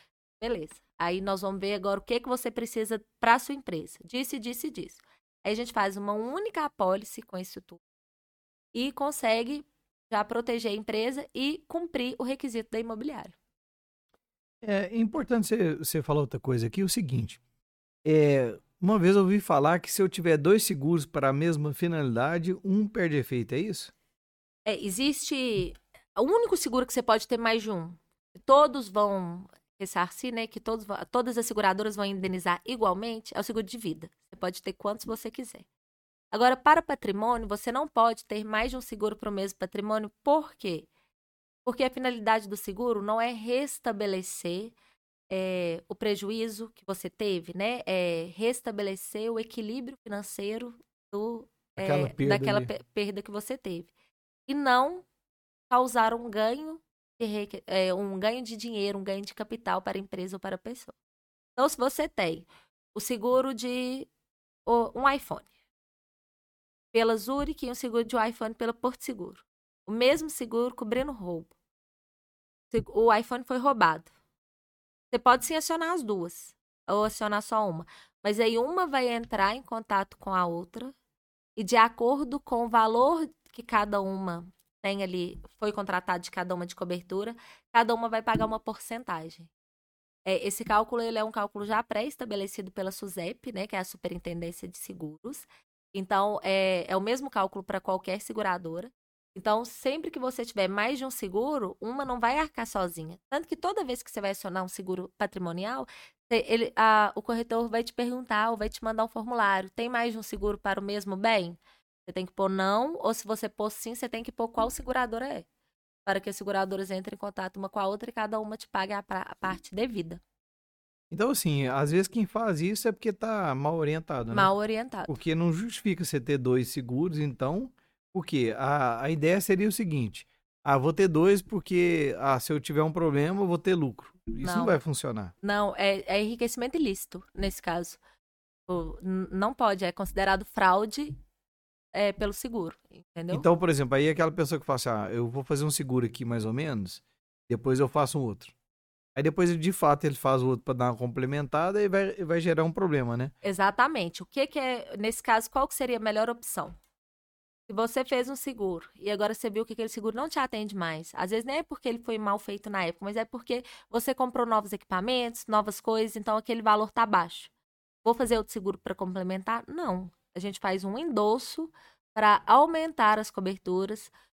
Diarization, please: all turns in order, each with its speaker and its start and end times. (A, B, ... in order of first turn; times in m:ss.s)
0:00.4-0:07.8 A
0:08.7-0:13.4 A
0:14.6-0:17.4 B
0:18.0-0:23.9 B
0:24.7-0:35.6 A
0:36.3-0:40.9 A
0:41.6-0:44.7 A
0:45.3-0:53.9 A
0:51.8-0:52.7 B
0:54.5-0:55.1 A
0:55.7-1:01.0 A
1:01.6-1:04.1 A
1:04.7-1:05.5 A
1:06.9-1:11.5 A
1:12.7-1:14.1 A
1:15.1-1:20.9 A
1:21.6-1:29.5 A
1:30.3-1:55.5 A
1:56.1-2:00.2 A
2:01.1-2:04.5 B
2:04.3-2:05.1 A
2:05.1-2:15.3 B
2:14.4-2:14.8 A
2:15.4-2:18.0 A
2:18.7-2:21.2 A
2:21.9-2:23.5 A
2:23.3-2:28.5 B
2:29.2-2:33.3 B
2:33.4-2:36.8 A
2:37.7-2:47.5 A
2:48.0-2:54.1 A